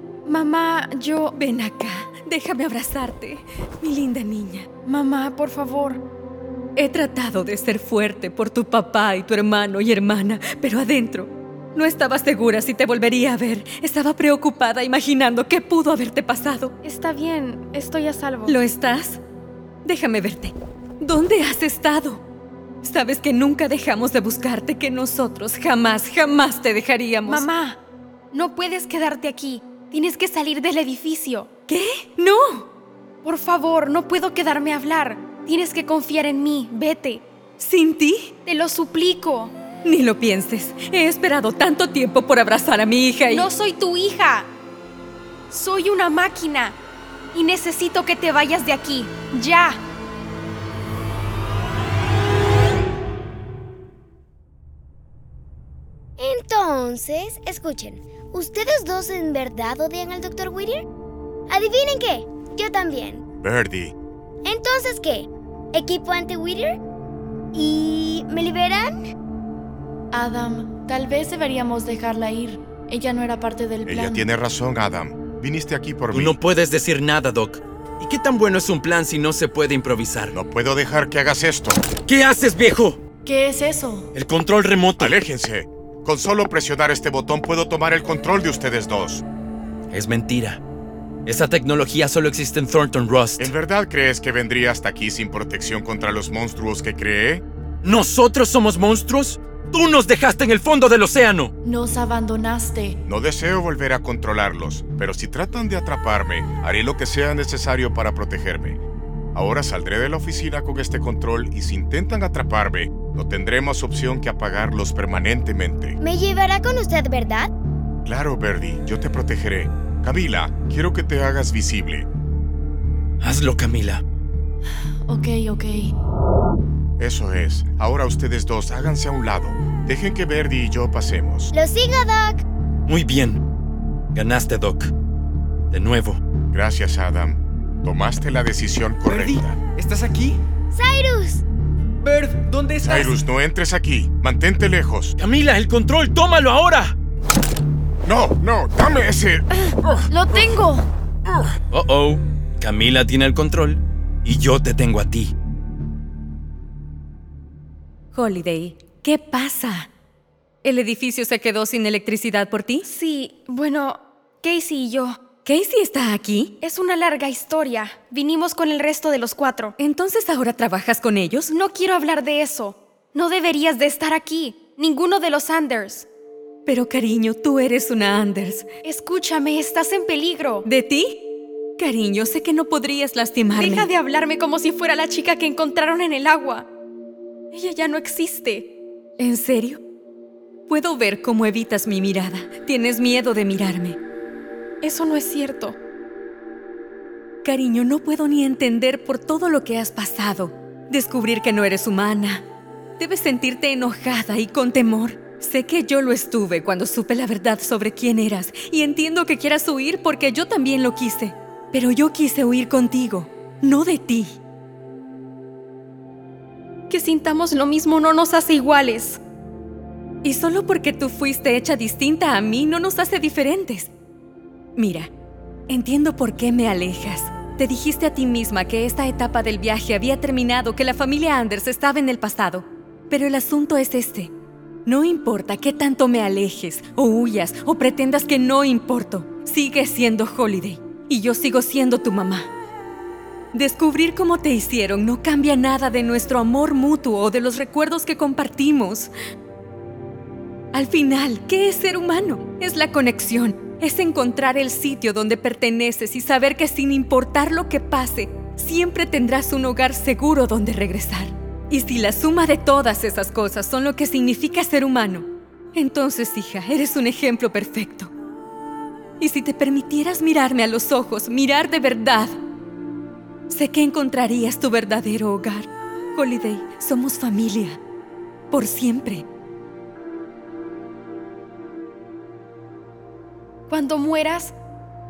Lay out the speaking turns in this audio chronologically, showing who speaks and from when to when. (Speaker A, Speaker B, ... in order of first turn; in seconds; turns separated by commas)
Speaker A: 0.2-1.3, Speaker B: 1.3-4.7, Speaker A: 4.8-6.0, Speaker B: 6.8-16.8, Speaker A: 16.8-18.5, Speaker B: 18.4-19.2, Speaker B: 19.8-22.2, Speaker B: 22.8-27.4, Speaker A: 27.2-27.8, Speaker A: 28.3-31.5, Speaker B: 31.7-32.7, Speaker A: 33.2-37.2, Speaker B: 37.6-38.3, Speaker A: 38.4-39.5, Speaker B: 39.8-43.5, Speaker A: 43.3-44.5, Speaker A: 45.5-46.8, Speaker A: 47.3-49.8, Speaker C: 56.2-60.8, Speaker C: 61.5-63.2, Speaker D: 63.4-63.9, Speaker C: 64.4-66.8, Speaker C: 67.5-69.0, Speaker E: 70.1-74.2, Speaker D: 73.8-76.4, Speaker F: 76.1-80.3, Speaker D: 80.3-81.8, Speaker F: 82.0-83.0, Speaker E: 83.2-84.1, Speaker F: 84.1-85.2, Speaker D: 85.0-89.2, Speaker F: 89.9-90.6, Speaker F: 91.2-93.5, Speaker D: 93.4-97.4, Speaker F: 97.8-101.5, Speaker E: 101.6-103.0, Speaker D: 103.0-108.8, Speaker D: 109.3-116.0, Speaker C: 116.0-117.5, Speaker D: 118.0-122.0, Speaker F: 123.2-124.0, Speaker E: 125.0-125.8, Speaker D: 127.0-131.5, Speaker C: 131.5-132.4, Speaker F: 132.9-133.4, Speaker F: 134.1-134.9, Speaker F: 135.7-136.2, Speaker D: 136.5-139.6, Speaker G: 139.1-140.4, Speaker C: 140.7-141.4, Speaker G: 142.0-143.1, Speaker D: 142.8-145.1, Speaker F: 145.2-146.9, Speaker D: 148.1-150.0, Speaker E: 150.1-150.8, Speaker F: 151.7-155.3, Speaker B: 158.1-159.9, Speaker B: 160.6-162.9, Speaker A: 162.8-165.2, Speaker B: 165.4-166.6, Speaker A: 166.6-169.7, Speaker B: 169.8-171.5, Speaker A: 171.5-176.1, Speaker B: 176.7-178.7, Speaker A: 178.8-180.6, Speaker B: 180.6-183.9, Speaker A: 183.5-186.7, Speaker A: 187.5-188.7, Speaker B: 189.2-189.8, Speaker B: 190.7-194.0, Speaker A: 194.8-195.8, Speaker B: 197.4-202.4, Speaker B: 203.0-214.4, Speaker A: 216.9-219.2, Speaker B: 220.2-223.9, Speaker B: 224.8-225.1, Speaker B: 225.7-234.3, Speaker B: 234.8-242.5, Speaker B: 243.5-249.1, Speaker B: 250.7-268.1, Speaker B: 269.2-272.3, Speaker B: 273.5-277.8, Speaker B: 278.5-279.2, Speaker A: 283.7-284.5